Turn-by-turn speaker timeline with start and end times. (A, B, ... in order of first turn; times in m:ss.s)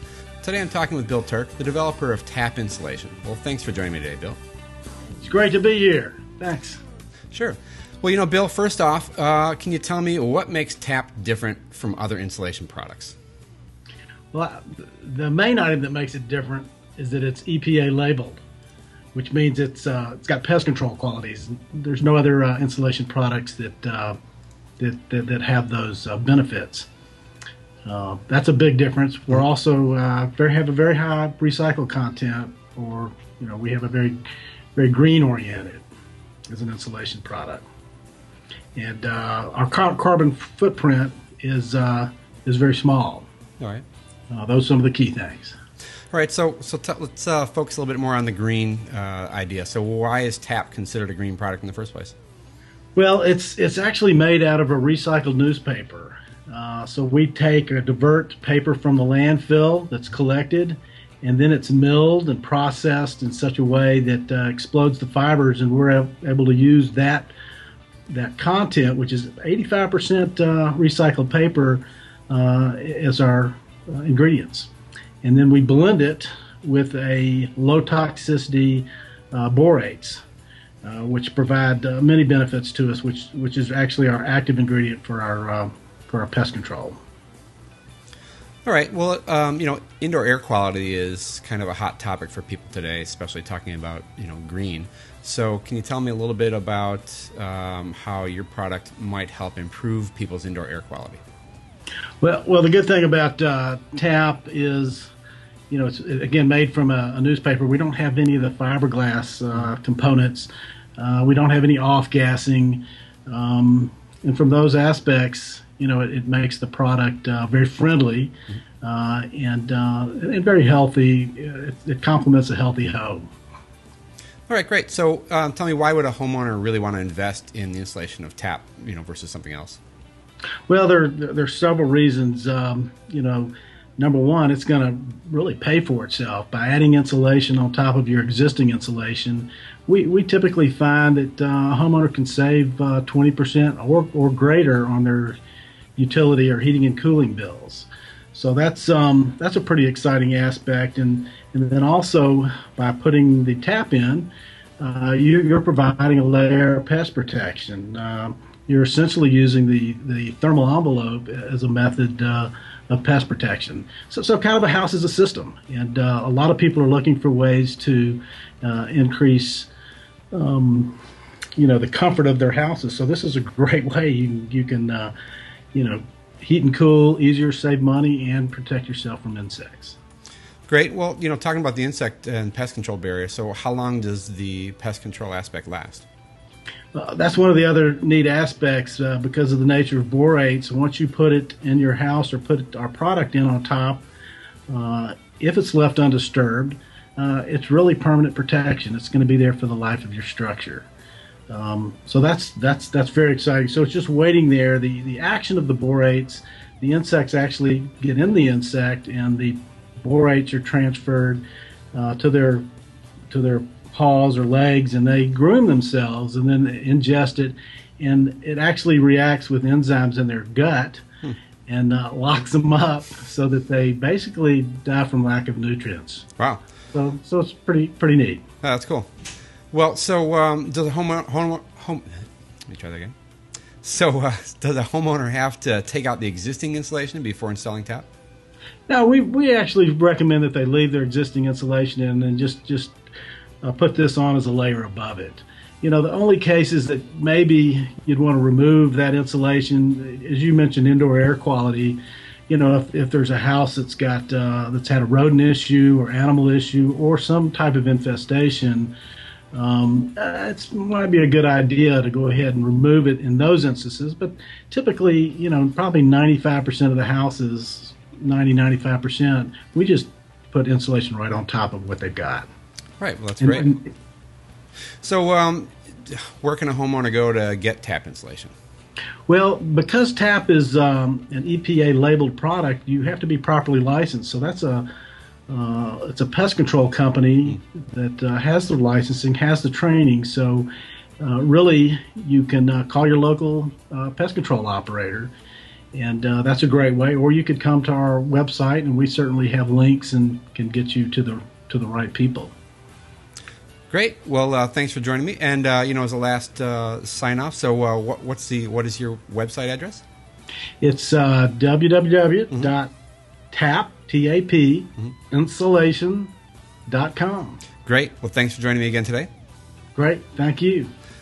0:00.4-0:04.4 A
0:05.2-0:06.8 B
0:07.3-0:13.1 A
0:14.3-0:18.4 B
0:19.1-0:24.2 B
0:24.8-0:26.9 B
0:27.8-0:34.2 B
0:34.8-0:35.8 B
0:36.5-0:37.6 B
0:38.8-0:43.3 B
0:43.6-0:43.8 A
0:44.3-0:45.6 B
0:46.1-0:52.1 A
0:52.9-1:07.3 B
1:08.1-1:14.7 B
1:15.2-1:20.2 B
1:20.8-1:27.0 B
1:28.6-1:41.2 A
1:42.2-1:45.1 B
1:45.7-2:03.3 B
2:04.5-2:09.8 A
2:10.7-2:25.4 B
2:26.0-2:49.7 B
2:50.3-2:51.0 B
2:51.6-2:55.1 B
2:55.7-3:00.0 B
3:00.7-3:06.0 A
3:06.9-3:14.0 B
3:14.7-3:20.9 B
3:21.5-3:32.6 B
3:33.3-3:41.0 B
3:41.7-3:46.3 B
3:46.9-3:48.4 B
3:48.6-3:49.1 A
3:49.7-3:53.1 A
3:53.8-3:58.0 A
3:58.9-4:03.0 B
4:03.6-4:18.9 B
4:19.5-4:32.5 B
4:33.0-4:33.8 A
4:33.4-4:33.9 B
4:35.0-4:38.5 A
4:39.3-4:44.9 B
4:45.5-4:55.3 B
4:55.9-5:02.5 B
5:03.9-5:10.0 A
5:10.8-5:12.9 B
5:13.5-5:16.3 B
5:16.9-5:17.6 B
5:17.8-5:19.3 A
5:19.9-5:20.9 B